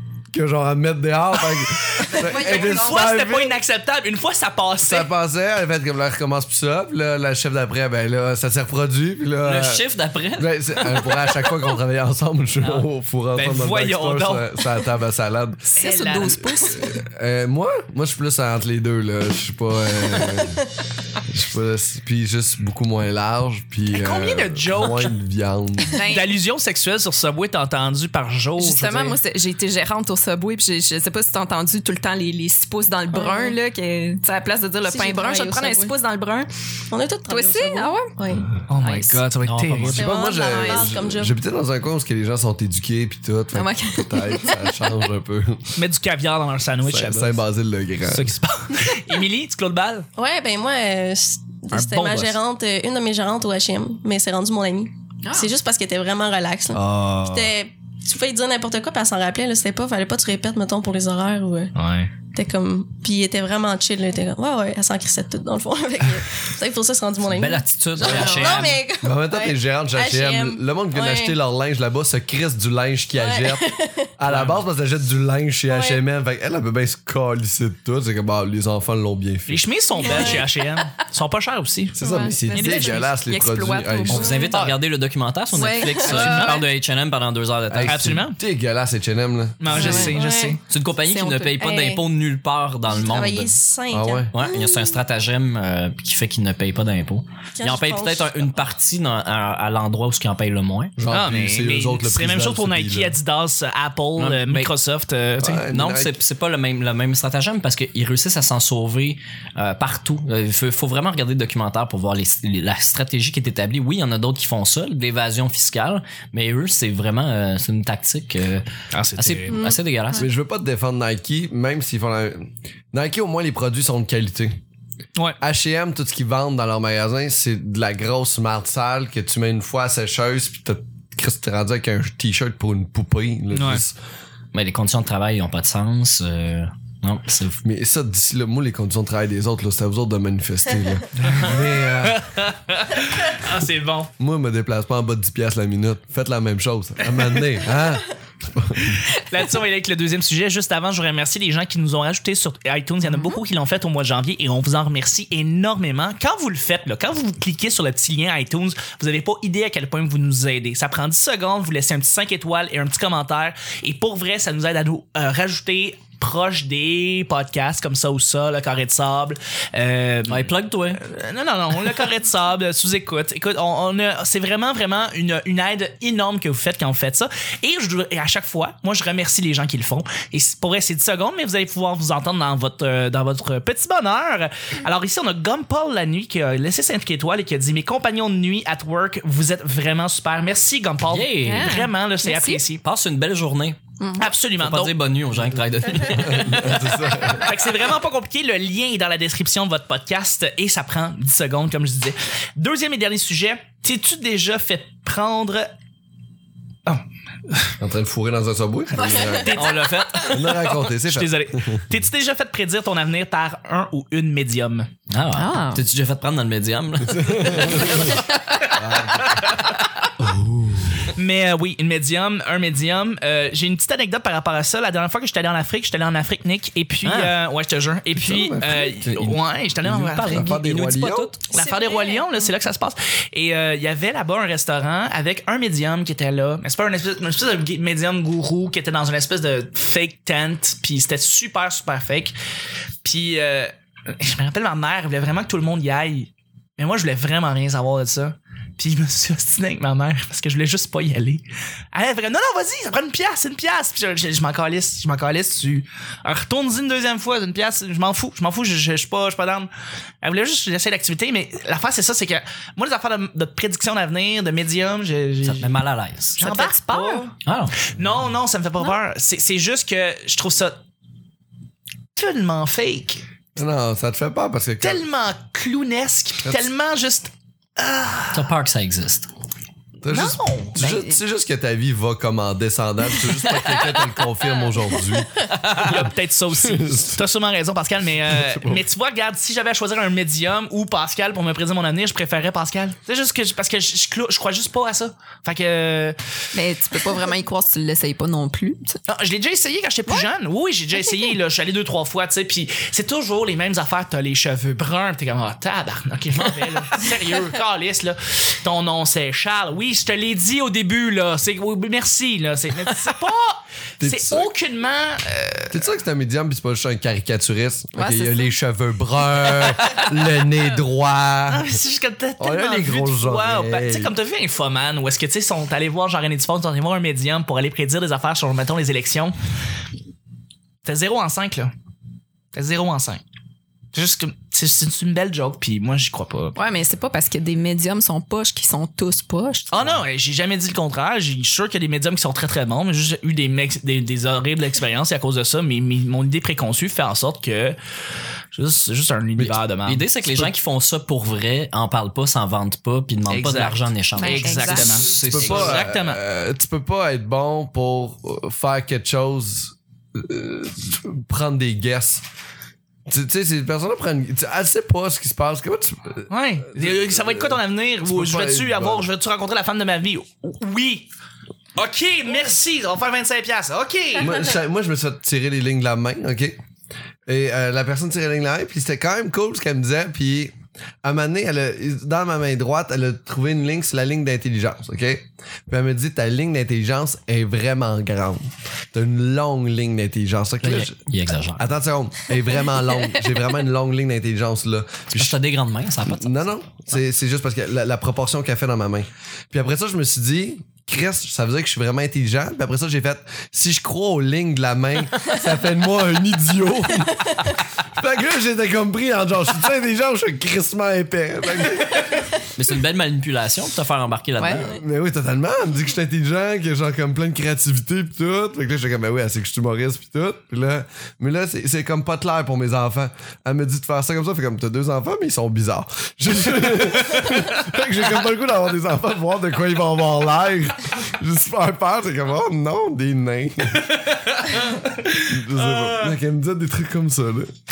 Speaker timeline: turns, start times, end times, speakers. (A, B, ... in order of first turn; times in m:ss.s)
0:00.3-0:03.6 A
0:02.0-0:05.1 B
0:02.1-0:02.9 C
0:04.8-0:09.8 A
0:09.4-0:11.2 D
0:10.4-0:15.8 A
0:12.6-0:14.6 B
0:15.7-0:16.8 C
0:15.8-0:16.7 B
0:16.7-0:20.6 A
0:21.3-0:25.9 A
0:23.9-0:25.1 B
0:25.9-0:26.3 C
0:26.0-0:29.2 B
0:28.6-0:36.5 C
0:33.1-0:33.6 E
0:34.8-0:36.0 E
0:36.9-0:38.5 E
0:37.3-0:38.1 C
0:38.7-0:40.0 B
0:38.8-0:39.3 C
0:39.4-0:40.0 D
0:39.9-0:45.7 A
0:39.9-0:41.4 E
0:40.0-0:40.9 C
0:43.5-0:44.7 C
0:45.8-0:47.4 B
0:46.9-0:48.4 A
0:48.1-0:50.1 B
0:50.2-1:01.7 E
0:51.7-0:52.4 B
0:55.2-0:55.5 C
0:56.7-0:57.5 A
1:01.8-1:02.1 B
1:02.3-1:11.4 E
1:07.2-1:08.8 D
1:08.0-1:08.7 C
1:09.0-1:20.4 A
1:13.2-1:14.1 E
1:14.3-1:14.6 B
1:15.7-1:16.0 E
1:19.5-1:22.0 B
1:20.0-1:20.6 E
1:20.1-1:20.4 C
1:22.0-1:24.3 A
1:22.0-1:24.5 C
1:24.1-1:28.2 D
1:25.5-1:26.7 C
1:26.0-1:26.7 B
1:27.7-1:29.9 A
1:27.8-1:28.4 B
1:29.6-1:30.6 B
1:29.7-1:30.2 C
1:29.7-1:30.6 E
1:30.7-1:33.6 D
1:31.1-1:31.6 C
1:31.6-1:32.0 E
1:32.9-1:34.7 E
1:33.9-1:34.3 A
1:34.3-1:41.0 D
1:37.6-1:38.5 E
1:41.0-1:43.2 A
1:41.1-1:45.6 B
1:44.2-1:44.7 D
1:45.4-1:46.2 A
1:45.7-1:58.7 D
1:58.9-1:59.6 B
1:59.2-2:00.3 D
1:59.5-2:00.2 E
2:00.2-2:04.6 A
2:05.4-2:14.0 A
2:13.5-2:13.8 B
2:14.5-2:17.6 D
2:17.6-2:22.2 A
2:21.2-2:24.1 B
2:24.2-2:29.0 A
2:29.1-3:12.8 B
2:33.1-2:33.4 C
2:50.3-2:51.0 D
3:11.1-3:11.8 D
3:11.4-3:12.6 C
3:12.8-3:13.8 D
3:14.0-3:14.3 C
3:14.2-3:15.0 B
3:14.6-3:17.2 D
3:16.2-3:17.5 A
3:17.3-3:25.7 B
3:26.9-3:27.7 B
3:27.8-3:29.7 A
3:29.3-3:34.9 B
3:29.5-3:30.4 D
3:30.3-3:31.9 A
3:35.1-3:38.2 D
3:35.4-3:35.8 C
3:37.1-3:38.2 A
3:38.7-3:39.6 A
3:39.2-3:39.8 B
3:40.2-3:41.1 A
3:41.2-3:50.5 B
3:47.0-3:47.4 D
3:48.2-3:51.4 A
3:50.2-3:51.4 D
3:51.5-3:52.5 E
3:51.5-4:02.4 B
4:03.0-4:19.7 B
4:20.2-4:25.8 B
4:25.4-4:26.4 D
4:26.4-4:30.8 B
4:26.4-4:27.3 C
4:27.4-4:27.8 D
4:32.2-4:33.2 B
4:33.6-4:35.0 A
4:34.8-4:38.5 B
4:38.3-4:39.3 D
4:40.0-4:46.0 A
4:40.1-4:40.8 B
4:40.8-4:41.2 C
4:43.3-4:43.8 C
4:45.5-4:46.0 D
4:45.7-4:56.2 B
4:46.5-4:47.2 A
4:48.3-4:48.8 A
4:56.5-4:59.0 C
4:59.1-5:15.8 B
5:14.0-5:14.5 A
5:15.7-5:21.7 A
5:18.0-5:18.5 C
5:19.6-5:20.0 B
5:21.5-5:29.4 B
5:22.4-5:24.1 A
5:30.8-5:31.7 B
5:32.5-5:33.2 B
5:33.9-5:36.6 B
5:36.6-5:39.7 C
5:39.7-5:47.8 B
5:48.5-5:50.1 B
5:49.9-5:55.9 D
5:53.3-5:56.2 B
5:54.2-5:55.0 C
5:55.0-6:02.2 A
6:03.1-6:09.1 A
6:06.3-6:11.1 B
6:11.8-6:14.5 B
6:14.2-6:16.6 A
6:17.3-6:31.0 A
6:30.6-6:31.6 D
6:31.6-6:35.4 A
6:32.8-6:33.3 C
6:35.1-6:36.5 D
6:36.1-6:52.2 A
6:52.6-6:54.8 D
6:54.4-6:54.7 C
6:54.6-7:14.2 A
7:14.6-7:16.1 B
7:15.1-7:17.5 A